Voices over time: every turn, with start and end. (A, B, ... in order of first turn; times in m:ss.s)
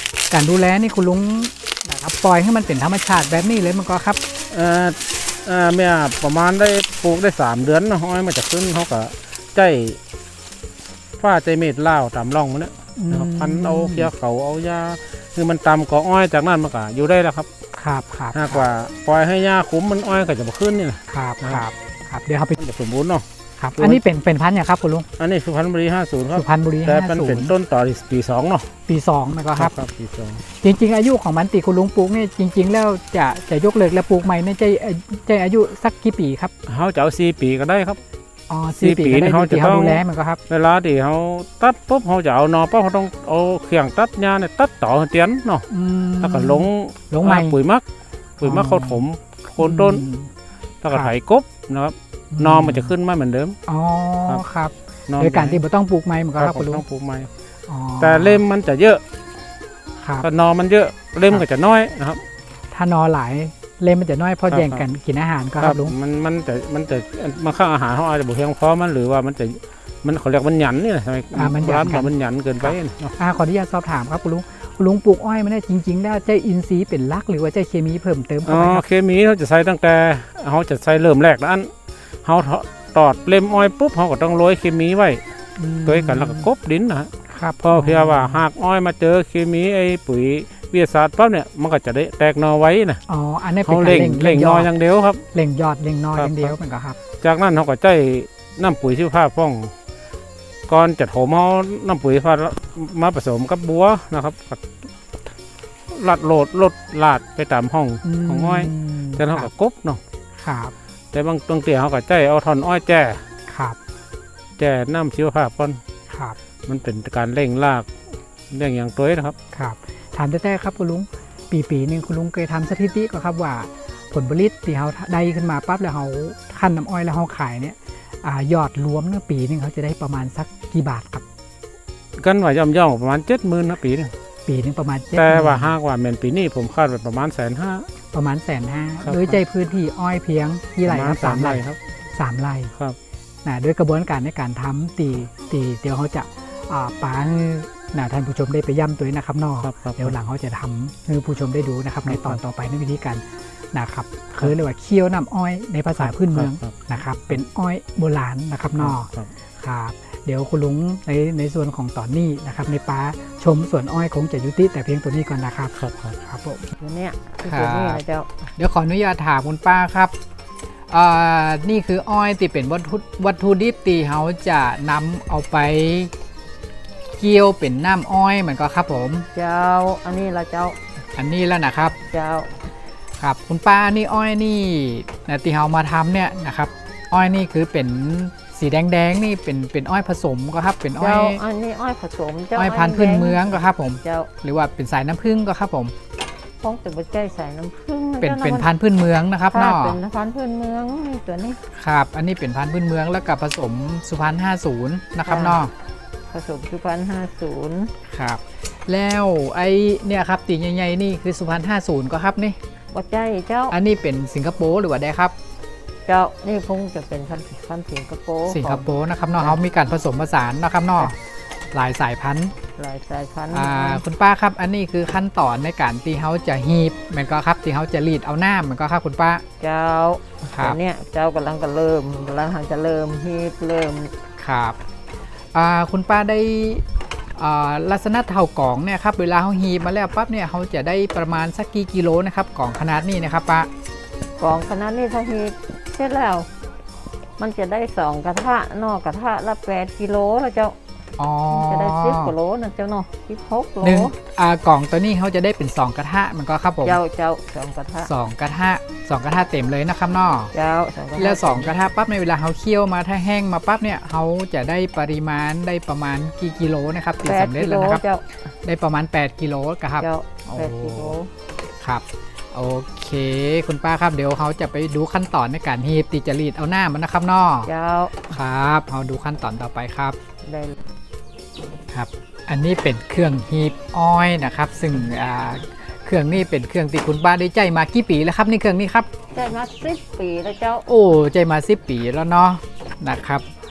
0:00.3-0:04.2 A
0:04.5-0:10.0 B
0:11.2-0:17.5 B
0:13.0-0:14.1 A
0:17.7-0:18.7 A
0:18.3-0:21.6 B
0:21.1-0:22.6 A
0:22.6-0:23.2 B
0:23.6-0:25.1 A
0:25.2-0:28.7 B
0:26.3-0:27.5 A
0:28.9-0:29.7 A
0:29.6-0:30.4 B
0:30.6-0:36.5 A
0:36.7-0:38.0 B
0:38.5-0:40.4 A
0:38.8-0:45.7 B
0:45.7-0:47.5 A
0:46.2-0:47.8 B
0:48.4-0:50.0 B
0:48.4-0:49.0 A
0:49.6-0:50.3 A
0:50.8-0:53.6 B
0:52.3-0:52.9 A
0:53.7-0:56.8 A
0:55.1-0:55.6 B
0:56.4-0:57.3 B
0:57.7-0:58.4 A
0:58.0-0:59.0 B
1:00.0-1:00.3 A
1:00.2-1:02.2 B
1:02.7-1:05.9 A
1:04.5-1:04.8 B
1:05.6-1:13.1 B
1:11.3-1:18.8 A
1:18.4-1:21.7 B
1:22.2-1:25.2 B
1:25.6-1:26.5 A
1:25.8-1:33.0 B
1:27.3-1:28.4 A
1:33.1-1:34.7 A
1:33.6-1:35.2 B
1:35.3-1:37.0 A
1:36.2-1:36.5 B
1:37.2-1:39.7 B
1:40.7-1:44.6 B
1:45.9-1:50.0 B
1:48.0-1:49.5 A
1:50.4-1:50.7 A
1:51.1-1:53.2 B
1:53.5-1:53.8 A
1:54.6-1:55.8 B
1:56.1-1:56.4 A
1:56.7-1:57.9 B
1:58.5-1:59.4 B
1:59.5-2:11.2 A
2:12.2-2:14.1 B
2:14.4-2:15.7 A
2:15.1-2:17.9 B
2:18.1-2:21.6 A
2:19.0-2:19.4 B
2:20.8-2:21.8 B
2:22.1-2:22.7 A
2:23.4-2:46.7 A
2:29.6-2:30.1 B
2:32.1-2:32.4 B
2:36.0-2:37.4 B
2:38.8-2:39.3 B
2:45.7-2:46.2 B
2:46.8-2:48.3 C
2:47.4-2:48.0 A
2:48.6-2:50.1 A
2:50.9-2:56.1 A
2:57.2-2:59.3 A
2:59.3-3:00.8 C
3:01.2-3:02.0 A
3:02.1-3:02.5 C
3:03.2-3:11.4 A
3:11.0-3:14.3 C
3:12.5-3:15.9 A
3:16.6-3:18.7 C
3:18.2-3:20.0 A
3:19.5-3:21.6 C
3:21.7-3:25.7 A
3:25.2-3:25.6 C
3:26.3-3:27.9 C
3:28.1-3:32.6 A
3:32.9-3:33.8 C
3:33.7-3:35.3 A
3:36.1-3:39.6 C
3:38.5-3:41.2 A
3:41.7-3:42.5 A
3:42.8-3:44.0 C
3:43.5-3:49.4 A
3:49.6-3:54.1 C
3:54.4-3:54.8 A
3:55.5-3:56.8 A
3:57.4-4:03.7 A
4:04.4-4:06.5 C
4:07.4-4:10.8 C
4:11.2-4:12.3 A
4:11.5-4:14.1 C
4:13.8-4:17.0 A
4:16.8-4:18.1 C
4:18.0-4:20.5 A
4:20.5-4:21.7 C
4:21.2-4:28.0 A
4:27.2-4:28.2 C
4:28.6-4:31.2 A
4:30.0-4:31.3 C
4:31.8-4:37.7 A
4:37.6-4:38.1 C
4:38.3-4:40.2 A
4:40.4-4:40.8 C
4:41.9-4:49.1 A
4:49.3-4:50.9 C
4:50.9-4:53.4 A